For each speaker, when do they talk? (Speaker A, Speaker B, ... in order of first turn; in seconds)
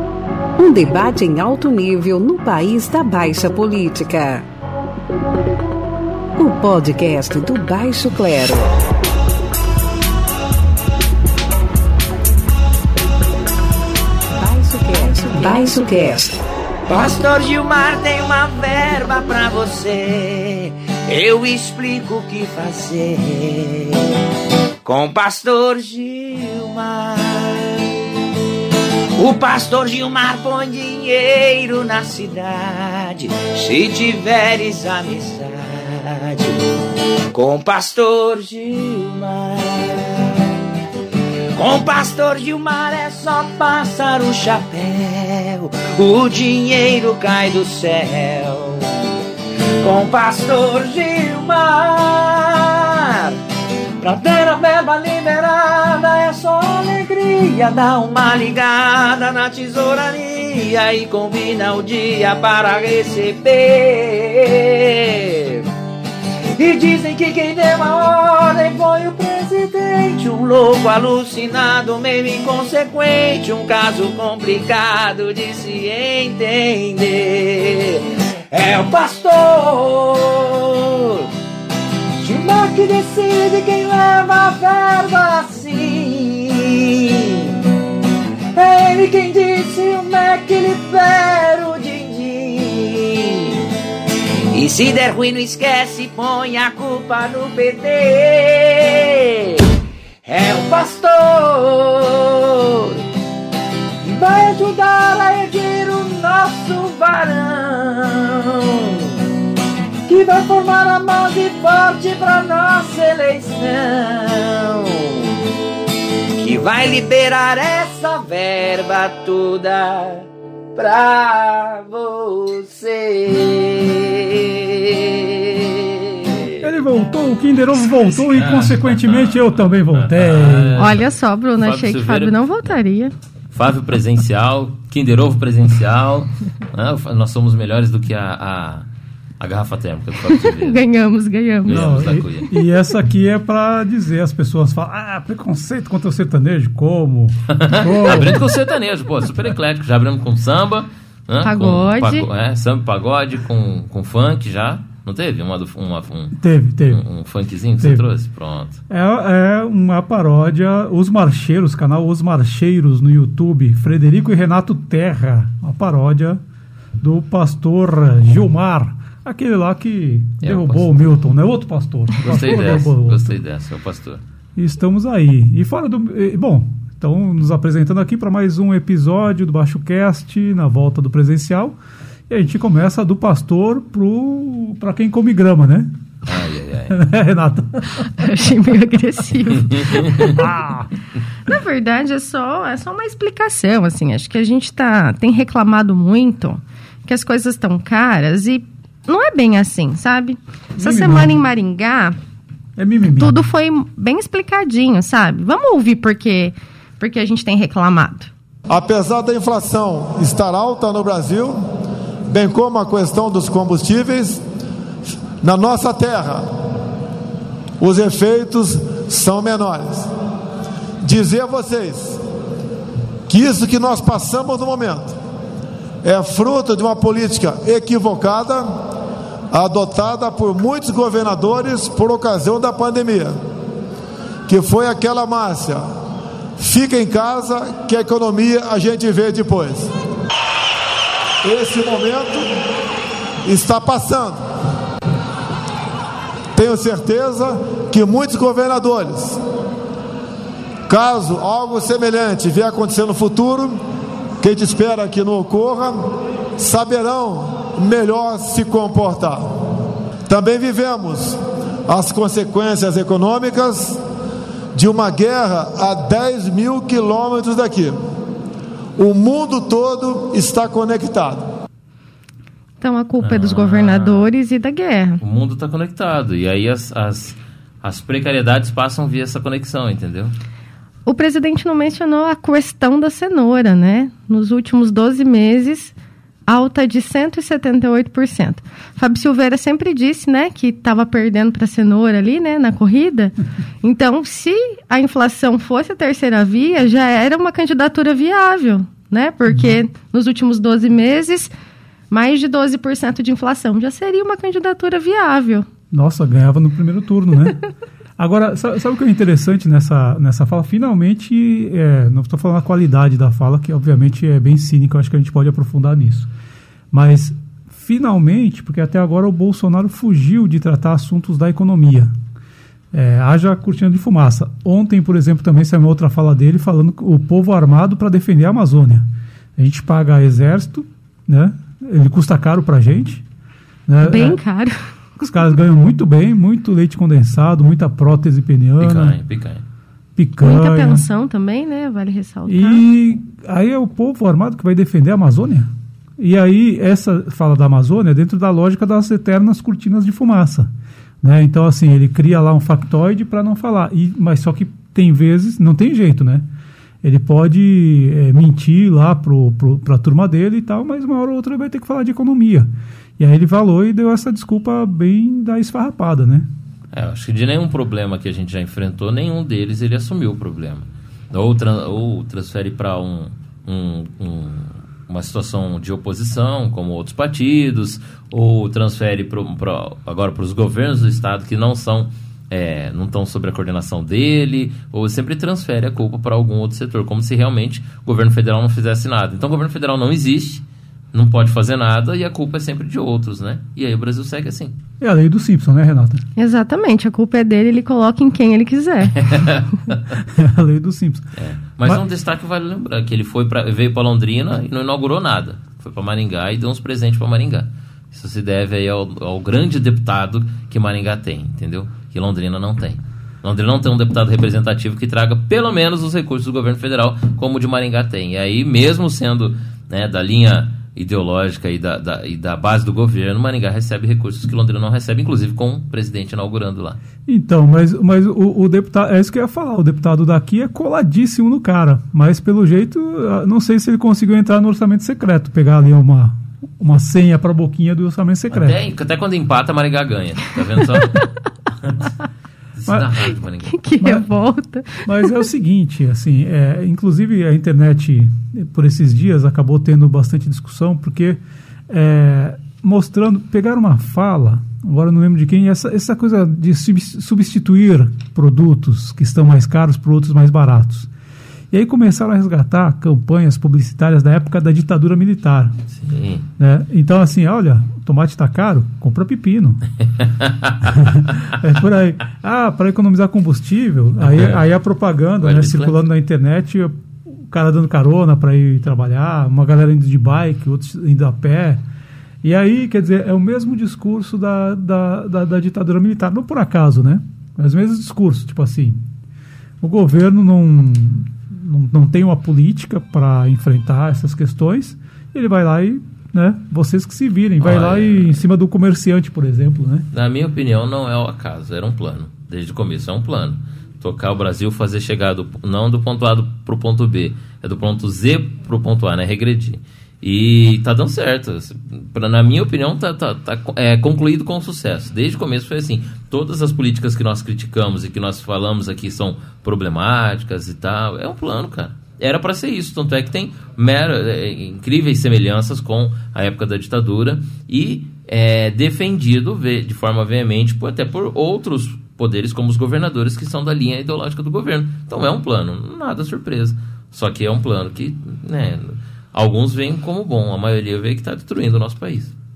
Speaker A: 0.6-4.4, 6.4-8.7, 14.3-16.4
Speaker B: 16.9-24.0, 24.8-27.7, 29.2-36.5, 37.3-40.1, 41.5-48.9, 49.8-53.4, 54.0-65.6, 66.6-81.2, 82.2-87.5, 88.5-93.6, 94.5-99.6, 100.2-103.0, 104.0-108.9, 110.1-115.2, 116.4-126.7
Speaker C: 126.6-130.9, 141.7-148.5, 156.4-157.0, 158.9-166.4, 167.0-173.4, 174.6-181.7, 182.3-185.9, 186.9-188.1, 190.3-190.9, 200.8-201.3, 202.8-203.3, 305.9-307.6, 308.2-316.3, 316.9-322.1, 322.9-329.1, 329.6-333.2, 333.9-334.4, 335.2-339.2, 340.2-341.0, 342.4-350.7, 351.2-356.4, 357.0-366.5, 395.0-396.2, 400.1-401.2, 427.3-438.8, 444.0-444.2, 445.0-461.1, 461.7-465.7, 466.6-469.8, 470.9-476.9, 477.5-481.8, 482.4-489.0, 489.8-500.1
Speaker D: 128.2-131.0, 131.6-132.7, 133.5-138.8, 139.4-140.8, 141.6-142.5, 147.5-156.4, 156.9-158.8, 170.4-170.9, 172.2-174.2, 186.2-187.0, 189.6-190.3, 273.2-274.3, 275.2-280.3, 338.8-339.6, 366.9-394.7, 399.2-399.7, 401.4-427.0, 438.5-441.3, 441.8-442.1, 442.7-443.8, 466.0-466.4, 470.4-470.9, 474.2-474.6, 475.4-476.0, 497.6-498.4, 500.1-542.3
Speaker E: 130.8-133.1, 140.3-142.0, 151.4-152.2, 188.2-190.4, 191.4-202.2, 203.2-208.3, 272.8-275.2, 281.1-285.9, 286.5-301.5, 302.1-305.7, 334.0-334.8, 340.4-342.8, 396.4-399.2, 443.7-445.3
Speaker F: 208.7-211.6, 212.3-214.4, 215.4-216.5, 217.8-220.1, 221.0-222.2, 223.3-225.2, 226.0-228.7, 229.5-233.4, 234.5-235.9, 236.6-239.9, 241.4-242.5, 243.4-244.4, 246.5-249.4, 250.9-253.8, 254.4-259.5, 260.3-264.0, 264.7-268.0, 269.0-271.5